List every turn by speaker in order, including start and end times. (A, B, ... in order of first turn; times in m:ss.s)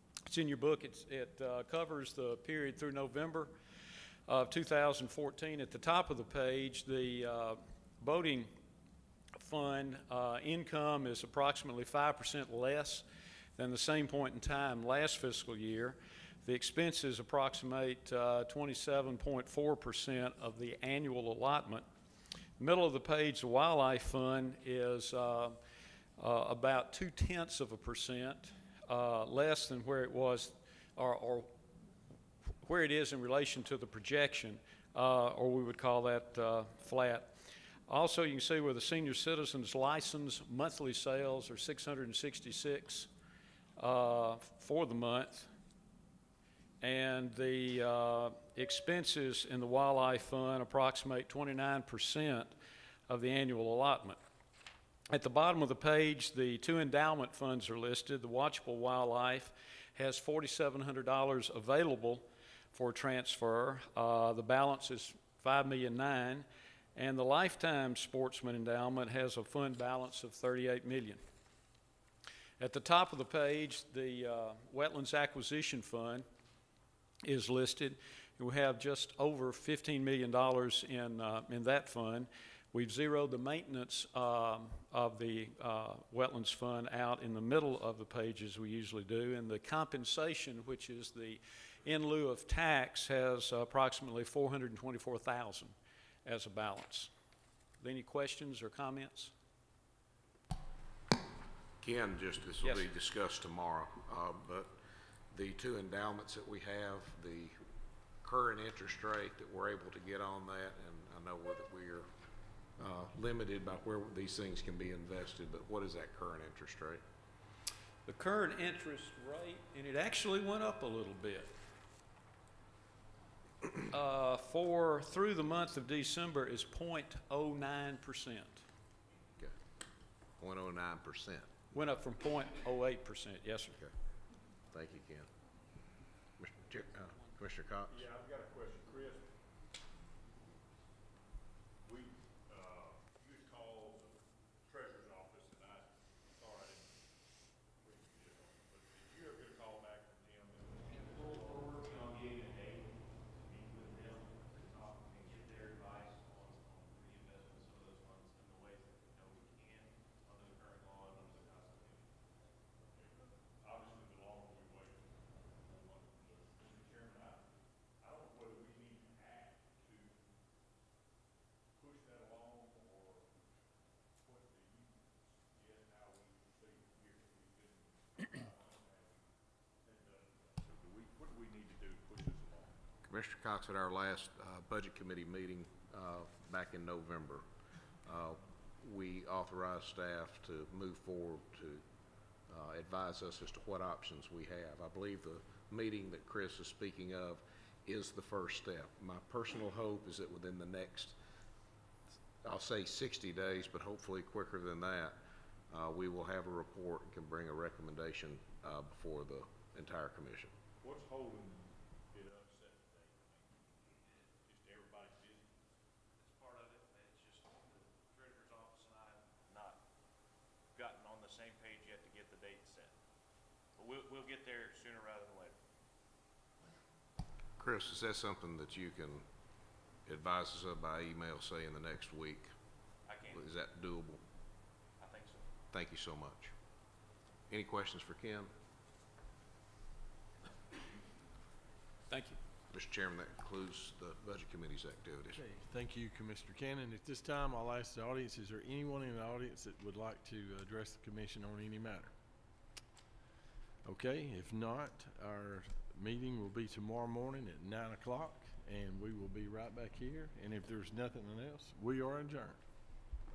0:00.2-0:03.5 A
0:04.3-0:08.5 A
0:09.4-0:13.0 A
0:13.6-0:21.9 A
0:22.6-0:25.6 A
0:26.2-0:31.5 A
0:32.6-0:43.1 A
0:43.8-0:45.5 A
0:46.8-0:52.5 A
0:53.1-0:54.2 A
0:55.1-1:11.2 A
1:12.6-1:16.2 A
1:17.2-1:37.1 A
1:37.8-1:39.3 A
1:41.8-1:44.7 B
1:42.6-1:42.9 A
1:45.3-1:47.6 B
1:48.2-1:52.1 B
1:52.8-1:57.0 B
1:58.0-2:01.5 A
2:03.9-2:08.6 A
2:10.4-2:11.5 B
2:11.7-2:13.7 A
2:14.7-2:15.3 B
2:16.4-2:18.0 B
2:17.9-2:19.3 C
2:21.8-2:26.9 C
2:27.8-2:31.3 C
2:31.2-2:32.8 D
2:33.4-2:42.1 D
2:42.8-2:47.4 C
2:48.0-2:50.2 C
2:51.8-2:53.3 C
2:54.2-2:59.2 C
2:59.8-3:02.8 C
3:03.0-3:07.4 B
3:08.0-3:11.8 B
3:12.5-3:21.2 B
3:22.4-3:25.2 B
3:25.7-3:30.5 B
3:30.8-3:33.6 C
3:34.3-3:35.5 C
3:36.2-3:39.8 D
3:40.8-3:42.9 D
3:43.8-3:45.5 D
3:47.6-3:49.2 B
3:50.0-3:52.5 B
3:53.3-3:54.2 B
3:55.0-3:55.4 D
3:55.7-3:56.5 B
3:57.5-3:58.5 B
4:02.1-4:02.4 A
4:02.7-4:05.4 B
4:05.3-4:12.1 E
4:13.8-4:22.6 E